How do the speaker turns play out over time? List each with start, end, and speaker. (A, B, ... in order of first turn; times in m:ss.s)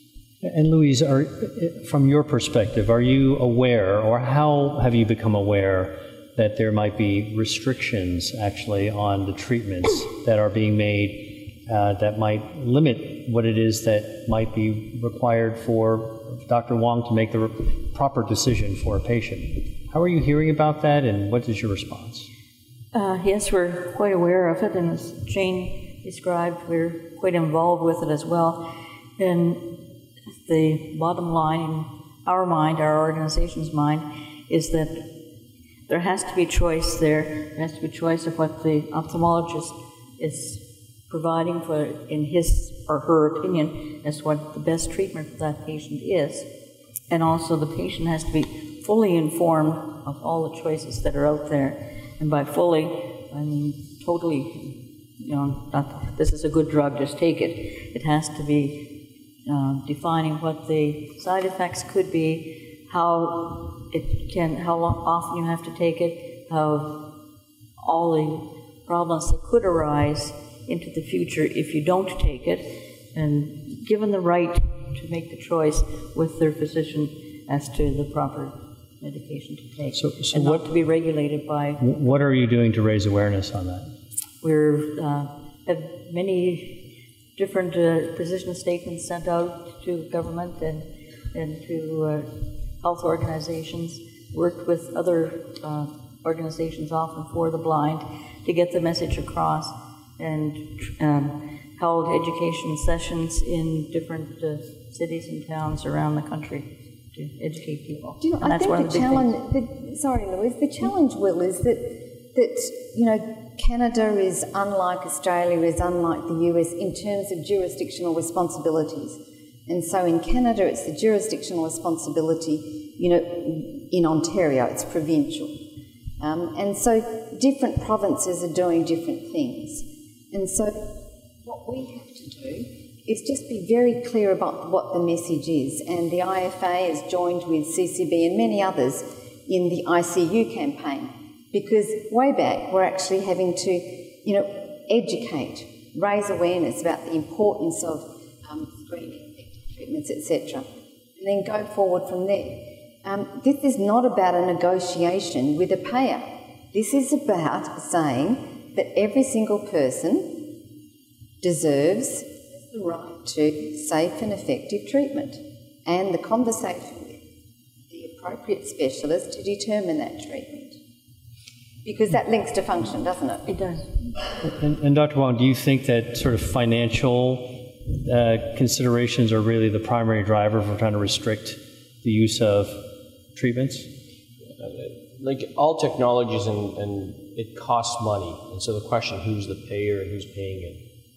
0:00.4-0:22.3 A
0:22.9-0:28.6 B
0:29.2-0:29.8 B
0:30.5-0:35.1 B
0:35.9-0:46.5 B
0:47.1-1:07.1 B
1:07.8-1:21.8 B
1:20.0-1:20.6 A
1:21.8-1:23.9 A
1:24.4-1:26.8 B
1:27.4-1:49.3 B
1:48.2-2:05.6 C
2:06.2-2:40.5 C
2:41.4-2:47.2 C
2:47.9-2:50.8 C
2:51.8-2:53.6 C
2:53.5-2:53.8 B
2:54.4-3:03.9 A
3:04.4-3:10.8 D